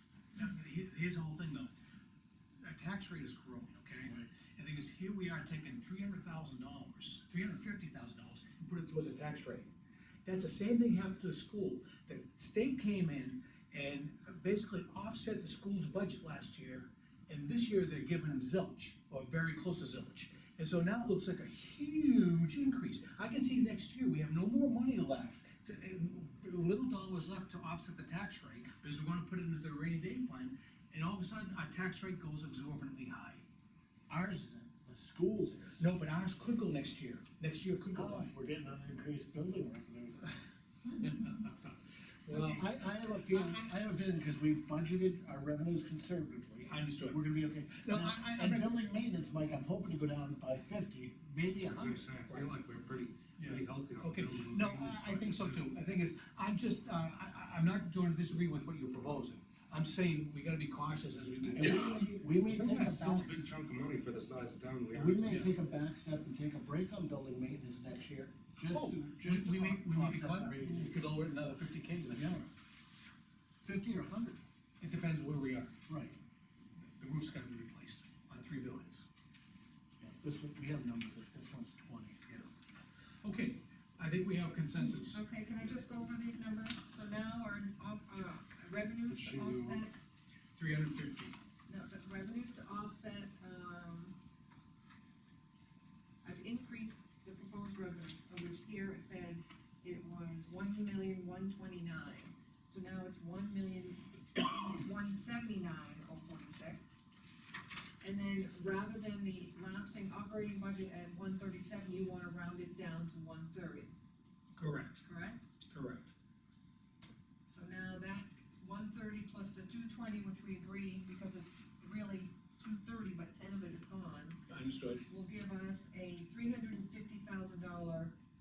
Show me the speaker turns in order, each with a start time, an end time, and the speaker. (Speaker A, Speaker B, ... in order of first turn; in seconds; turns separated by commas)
Speaker A: 0.3-1.7, Speaker A: 2.6-9.7, Speaker A: 10.3-33.5, Speaker B: 34.1-35.9, Speaker A: 35.8-38.3, Speaker B: 37.9-40.3, Speaker A: 41.0-43.6, Speaker B: 42.3-52.1, Speaker A: 46.7-48.8, Speaker C: 51.6-55.7, Speaker A: 52.3-52.5, Speaker A: 53.4-63.3, Speaker B: 61.5-63.4, Speaker C: 62.6-65.5, Speaker B: 64.9-71.1, Speaker A: 65.3-65.5, Speaker A: 68.7-72.5, Speaker B: 72.1-72.5, Speaker B: 73.6-74.4, Speaker A: 74.8-75.7, Speaker B: 75.9-76.2, Speaker A: 77.0-79.0, Speaker B: 80.0-82.5, Speaker A: 83.2-85.2, Speaker D: 85.0-90.0, Speaker C: 89.1-89.9, Speaker A: 90.5-91.4, Speaker D: 91.7-94.2, Speaker D: 96.2-107.0, Speaker D: 108.0-113.9, Speaker A: 114.5-115.0, Speaker D: 115.0-115.4, Speaker A: 115.7-116.1, Speaker D: 117.5-124.4, Speaker A: 124.5-125.1, Speaker D: 125.1-128.2